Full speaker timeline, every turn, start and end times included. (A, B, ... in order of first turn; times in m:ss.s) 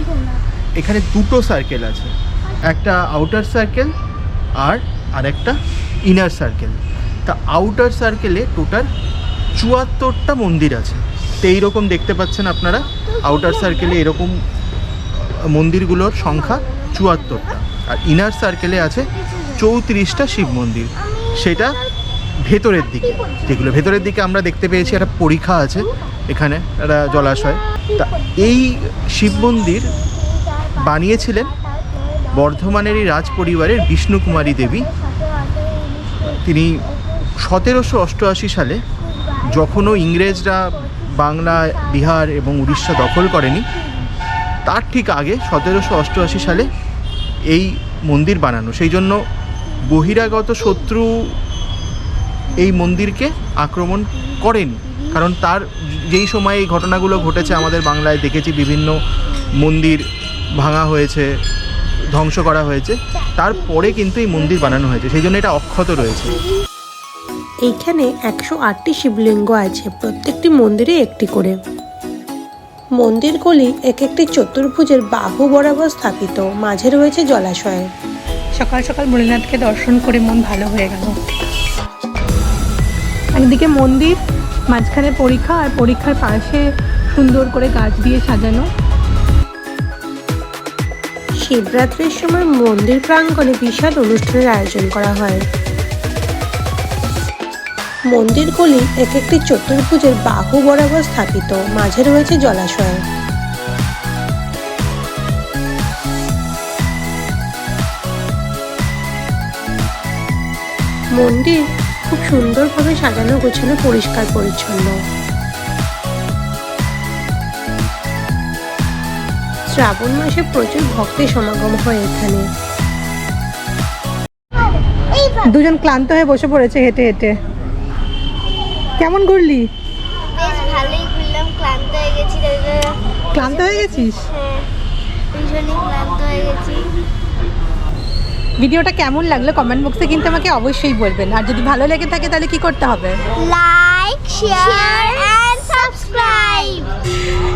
0:00.8-0:02.1 A
0:02.7-0:03.9 A
0:04.6-0:08.9 A
0:09.6-0:14.3 A
0:15.2-0:21.8 A
0:22.4-0:29.9 A
0:30.7-0:31.6 A
0:32.3-0:34.9 A
0:36.2-0:36.8 A
0:37.4-0:38.8 A
0:39.4-0:43.7 A
0:44.6-0:46.7 A
0:47.5-0:49.2 A
0:49.9-0:51.3 A
0:52.6-1:00.0 A
1:00.6-1:01.2 A
1:02.1-1:06.4 A
1:07.6-1:11.6 B
1:13.0-1:17.9 B
1:18.5-1:21.2 C
1:23.3-1:28.7 C
1:31.4-1:35.4 B
1:38.1-1:43.0 B
1:51.1-1:55.0 B
1:59.7-2:02.4 B
2:05.4-2:07.4 C
2:09.0-2:09.7 C
2:10.3-2:13.0 D
2:13.3-2:14.3 C
2:13.6-2:14.6 D
2:15.3-2:16.9 D
2:18.6-2:23.2 C
2:23.4-2:26.9 D
2:24.5-2:25.3 C